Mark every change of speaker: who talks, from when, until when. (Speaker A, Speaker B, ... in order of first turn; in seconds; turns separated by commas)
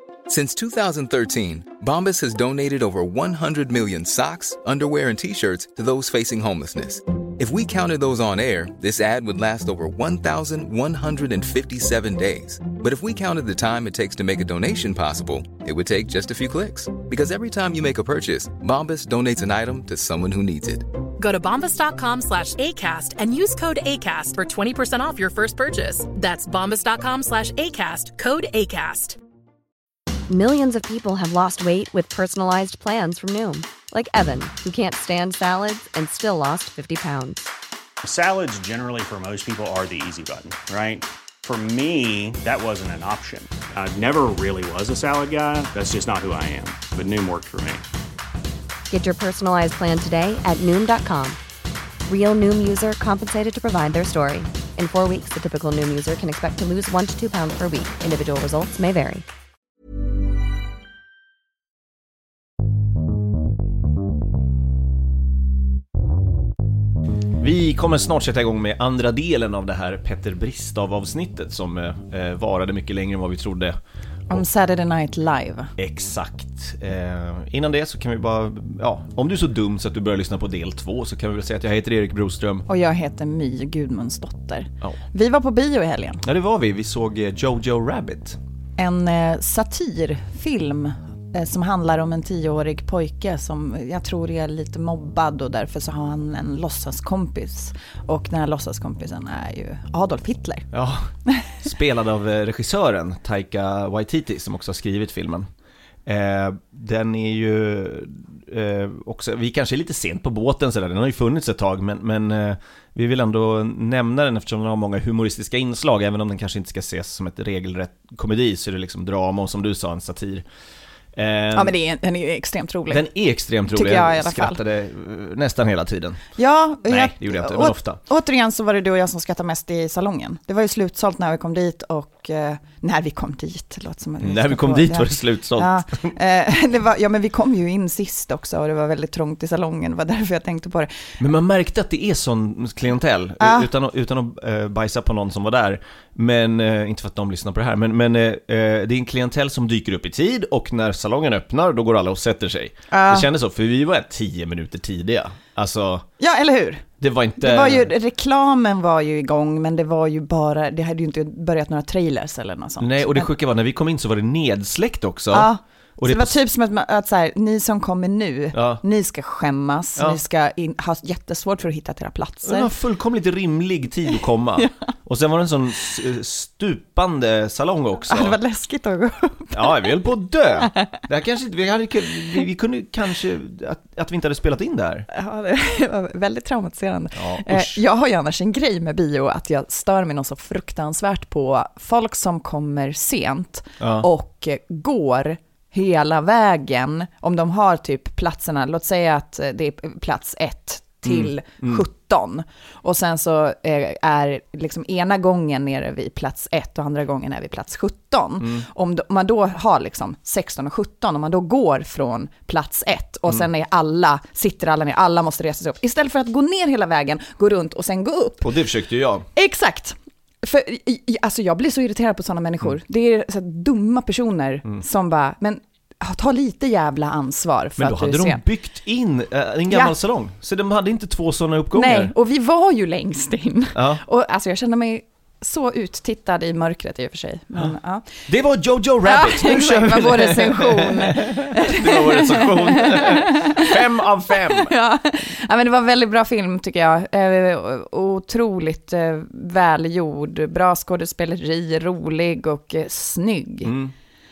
Speaker A: 0.3-20.9, Speaker B: 21.2-29.2, Speaker C: 30.3-37.5, Speaker D: 38.0-47.8, Speaker C: 48.9-51.4, Speaker C: 52.1-59.2, Speaker E: 67.4-73.8, Speaker F: 74.3-75.7, Speaker E: 75.8-82.7, Speaker F: 82.7-86.2, Speaker E: 86.2-88.4, Speaker F: 88.8-100.7, Speaker E: 100.7-101.1, Speaker E: 101.6-105.5, Speaker E: 106.1-120.5, Speaker E: 121.2-121.7, Speaker F: 121.5-123.1, Speaker E: 122.9-126.2, Speaker F: 123.7-124.6, Speaker F: 126.4-141.1, Speaker E: 126.8-128.0, Speaker E: 134.2-136.1, Speaker E: 141.2-156.1, Speaker F: 143.4-143.7, Speaker F: 152.9-153.3, Speaker F: 156.2-156.9, Speaker E: 157.0-157.9, Speaker F: 157.4-163.3, Speaker E: 162.8-166.4, Speaker F: 165.3-172.7, Speaker E: 168.5-168.8, Speaker E: 172.4-178.4, Speaker F: 178.1-179.9, Speaker E: 179.5-185.1, Speaker F: 185.1-218.5, Speaker E: 187.2-187.8, Speaker E: 193.8-194.1, Speaker E: 201.0-201.8, Speaker E: 208.4-208.7, Speaker E: 218.4-219.3, Speaker F: 219.4-228.4, Speaker E: 227.8-232.1, Speaker F: 231.8-238.2, Speaker E: 233.8-234.0, Speaker E: 238.3-244.7, Speaker F: 239.1-243.5, Speaker F: 244.3-253.7, Speaker E: 253.6-253.9